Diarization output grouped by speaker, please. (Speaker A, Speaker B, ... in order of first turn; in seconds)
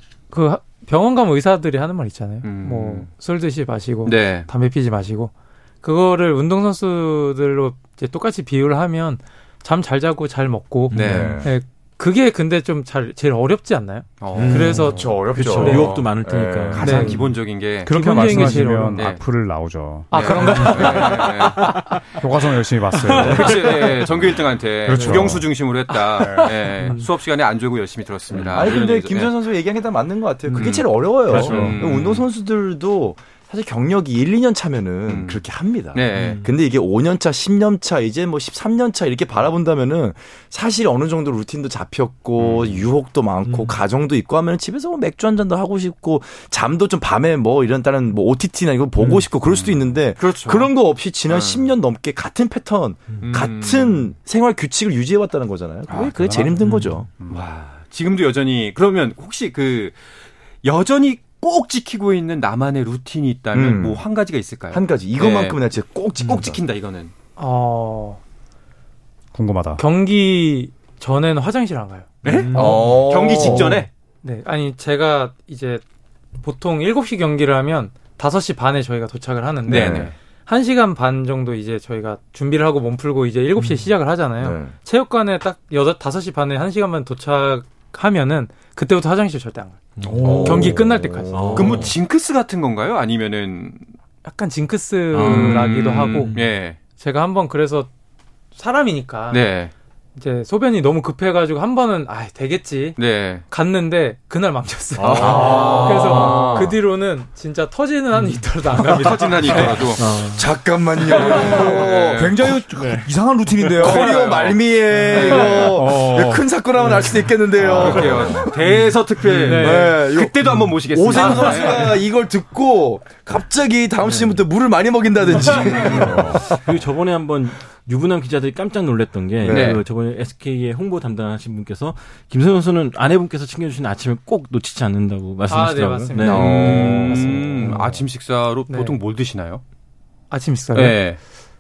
Speaker A: 0.3-16.0, 16.8-17.2, 17.8-19.1, 20.1-22.0, 23.1-23.7, 25.0-25.2, 25.9-27.1, 67.4-68.2, 69.8-72.1, 74.2-75.8, 76.4-91.6, 94.2-97.9, 98.5-99.5, 100.2-109.9, 119.4-120.0, 135.5-136.7, 138.7-139.0, 140.3-141.0
Speaker B: 2.4-3.1, 4.0-4.5, 10.9-11.4, 14.2-15.1, 16.7-19.2, 20.1-21.9, 23.2-29.3, 30.5-32.2, 35.1-36.4, 42.4-42.9, 49.5-50.7, 51.3-51.7, 53.2-54.1, 57.3-60.0, 60.6-65.6, 66.2-67.1, 72.2-73.9, 79.7-80.2, 91.6-93.8, 95.2-96.8, 99.3-99.7, 103.0-103.4, 105.0-106.7, 108.9-110.1, 111.1-112.5, 113.8-115.8, 117.6-122.0, 125.4-126.3, 129.5-129.8, 136.2-139.6, 140.7-141.2
Speaker C: 10.9-11.4, 14.3-17.2, 30.5-31.8, 36.1-36.5, 43.5-43.8, 49.0-49.3, 56.6-57.0, 72.3-73.5, 83.6-83.9, 90.0-90.8, 91.3-91.9, 95.1-96.6, 105.0-106.3, 110.0-110.5, 116.9-117.2, 119.3-119.6, 121.1-121.9, 124.0-124.4, 125.2-138.0
Speaker D: 11.0-11.5, 14.9-17.2, 28.5-57.1, 63.5-64.0, 64.7-66.6, 72.3-73.9, 79.7-80.1, 84.4-84.8, 90.2-92.0, 105.0-106.8, 110.2-112.3, 113.6-118.5, 119.3-126.6, 129.4-129.8, 136.2-137.3
Speaker E: 17.9-21.2, 22.2-23.7, 24.9-25.5, 26.2-26.5, 31.3-31.8, 55.9-57.4, 69.3-69.8, 90.0-90.8, 112.1-114.3, 114.9-116.5, 117.6-118.3